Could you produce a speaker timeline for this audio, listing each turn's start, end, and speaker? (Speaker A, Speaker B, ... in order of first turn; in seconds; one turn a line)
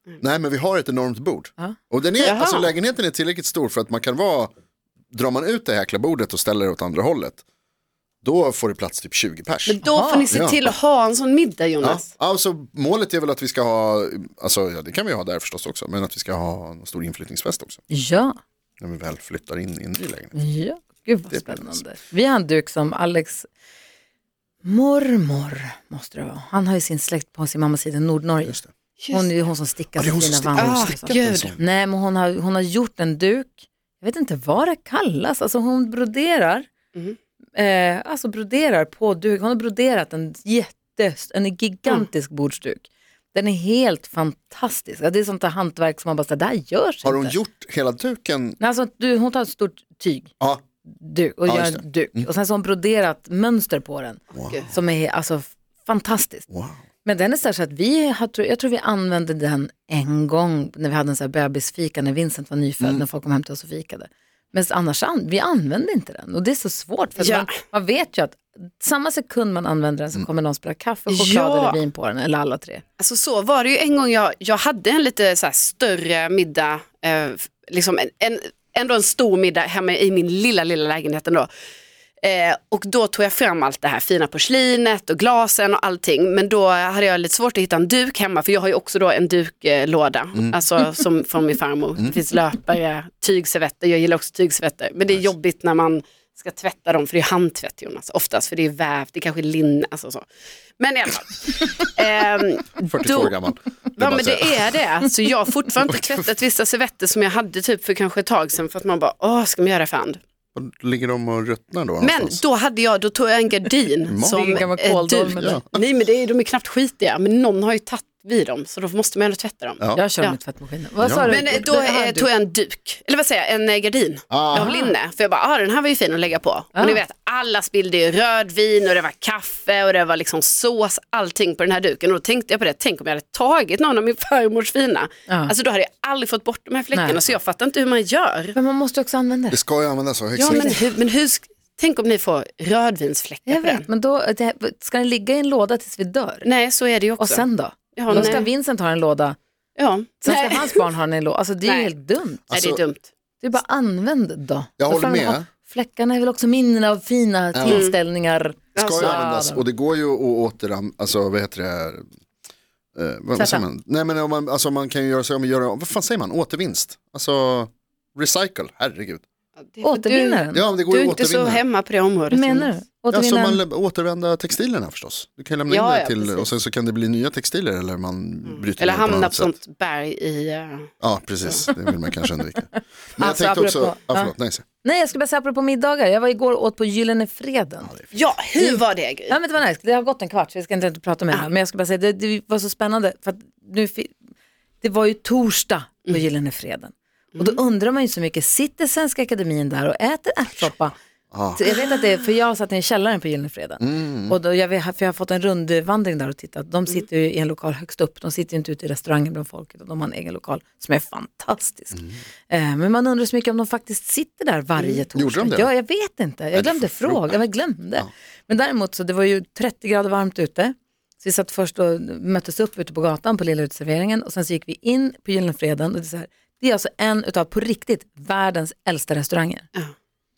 Speaker A: 0.2-4.5
Speaker B: 2.2-2.7
Speaker A: 5.1-7.4
Speaker A: 8.2-9.8
Speaker B: 9.7-12.1
Speaker C: 9.8-10.3
Speaker A: 10.3-10.7
Speaker A: 11.8-17.8
Speaker C: 17.9-18.4
Speaker A: 18.8-20.4
Speaker C: 20.3-23.5
Speaker A: 21.3-21.8
Speaker C: 24.6-36.7
Speaker B: 29.0-29.3
Speaker A: 29.9-31.6
Speaker B: 30.5-31.6
Speaker C: 37.5-47.4
Speaker A: 47.0-48.6
Speaker C: 48.6-50.3
Speaker C: 50.9-56.5
Speaker A: 51.5-52.3
Speaker A: 54.3-54.6
Speaker A: 56.5-56.8
Speaker C: 57.0-72.8
Speaker B: 67.2-67.5
Speaker B: 71.1-71.8
Speaker B: 73.0-81.5
Speaker B: 82.2-100.2
Speaker B: 100.8-103.4
Speaker A: 102.8-104.8
Speaker B: 104.0-110.2
Speaker A: 105.9-106.2
Speaker A: 110.5-112.4
Speaker B: 112.0-120.4
Speaker A: 114.1-114.7
Speaker C: 114.2-115.6
Speaker A: 115.3-115.8
Speaker C: 119.9-122.3
Speaker A: 121.0-121.4
Speaker B: 121.3-138.6
Speaker A: 124.3-124.7
Speaker C: 124.5-124.9
Speaker C: 135.3-135.5
Speaker C: 136.9-137.2
Speaker C: 138.5-139.6
Speaker A: 139.5-140.8
Speaker C: 140.3-140.8
Speaker B: 140.4-143.8
Speaker C: 143.4-146.4
Speaker B: 146.4-148.5
Speaker C: 147.2-149.4
Speaker B: 149.8-150.8
Speaker C: 150.2-152.4
Speaker B: 151.6-151.9
Speaker A: 152.5-152.8
Speaker B: 152.5-153.1
Speaker C: 153.4-159.6
Speaker A: 154.8-155.5
Speaker A: 157.5-157.9
Speaker B: 157.6-157.9
Speaker B: 158.8-159.2
Speaker A: 158.8-162.0
Speaker A: 162.9-169.2
Speaker C: 163.3-163.6
Speaker B: 169.6-172.7
Speaker C: 169.8-170.6
Speaker A: 170.5-171.6
Speaker C: 172.3-173.6
Speaker A: 173.1-179.5
Speaker B: 175.7-176.5
Speaker B: 178.5-180.9
Speaker A: 181.0-184.6
Speaker C: 183.2-187.9
Speaker B: 188.1-189.4
Speaker C: 188.6-194.1
Speaker C: 194.8-200.9
Speaker A: 201.3-201.6
Speaker C: 201.5-229.7
Speaker A: 203.8-204.3
Speaker A: 215.1-215.7
Speaker A: 216.5-217.4